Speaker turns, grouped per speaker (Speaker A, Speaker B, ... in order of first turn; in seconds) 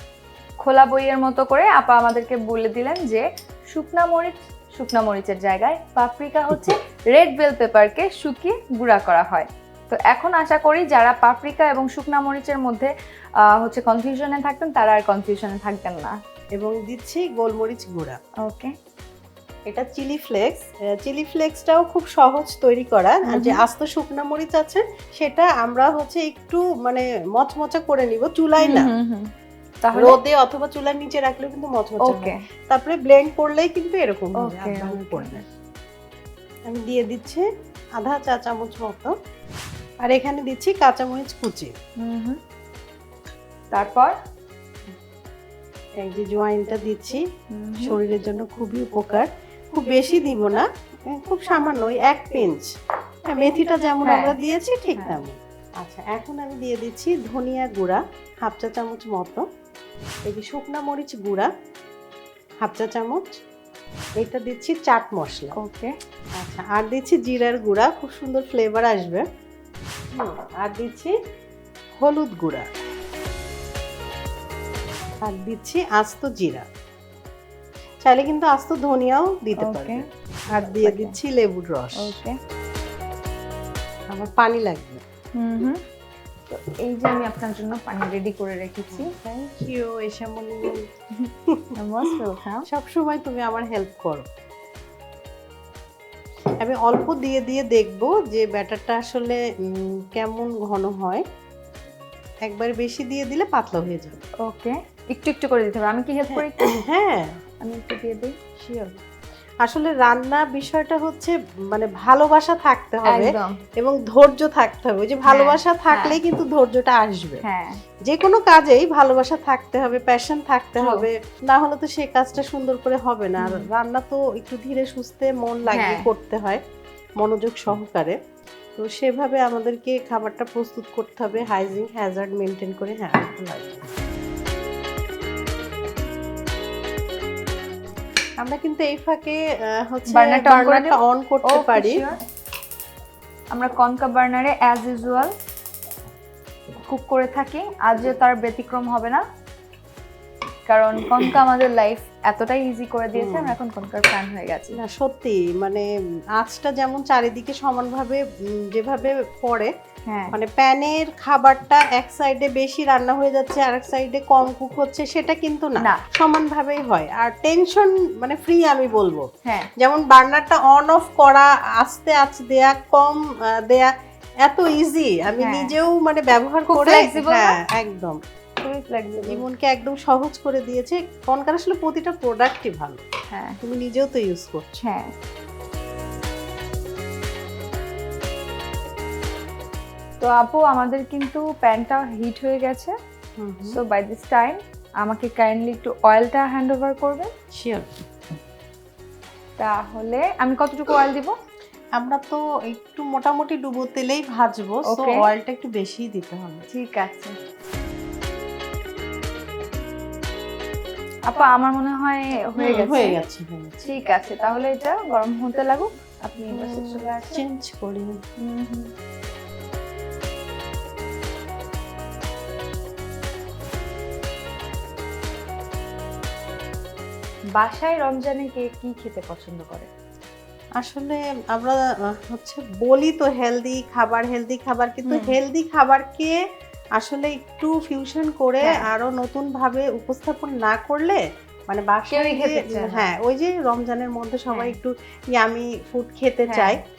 Speaker A: 0.6-12.9, 13.6-16.1, 18.4-18.7, 23.3-23.6, 28.6-29.3, 29.8-30.2, 32.0-32.4, 34.4-35.4, 42.0-42.4, 43.7-44.1, 47.5-48.0, 54.0-54.4, 55.0-55.2, 65.5-65.9, 79.6-81.2, 82.0-82.3, 85.4-85.8, 86.5-89.1, 91.2-92.7, 104.4-106.7, 107.6-108.3, 113.1-113.6, 115.2-116.2, 117.4-117.8, 120.8-121.1, 123.4-123.7, 125.7-126.1, 140.1-142.2, 143.5-145.3, 146.8-149.2, 150.7-154.8, 160.1-160.3, 175.4-175.7, 176.7-177.5, 178.6-179.4, 183.3-183.6, 184.8-185.1, 190.2-192.9, 193.7-197.3, 199.6-201.3, 204.9-205.2, 206.7-207.3, 211.3-213.1, 213.8-217.4, 218.4-218.9, 227.6-229.9, 235.1-235.3, 242.1-243.1, 246.5-246.8
Speaker B: 16.6-18.2, 19.7-28.9, 29.9-35.4, 36.7-37.5, 38.0-39.1, 40.0-41.7, 46.0-47.2, 47.8-52.7, 53.3-59.4, 60.2-61.5, 62.6-63.4, 64.2-65.5, 66.4-69.2, 70.1-71.1, 72.0-72.7, 75.2-76.6, 78.0-80.0, 80.5-82.1, 84.1-85.0, 88.9-90.7, 92.7-94.2, 96.6-101.2, 102.5-104.2, 106.3-107.3, 108.6-109.0, 109.6-117.4, 118.1-126.6, 127.2-128.2, 128.8-133.8, 138.4-142.0, 153.1-153.6, 154.7-155.8, 156.4-158.2, 158.7-159.7, 160.3-169.3, 169.8-173.9, 174.4-178.2, 179.2-183.0, 183.6-184.6, 193.4-193.8, 197.6-197.9, 202.0-206.7, 212.6-213.7, 216.5-218.2, 230.8-236.3, 237.0-246.8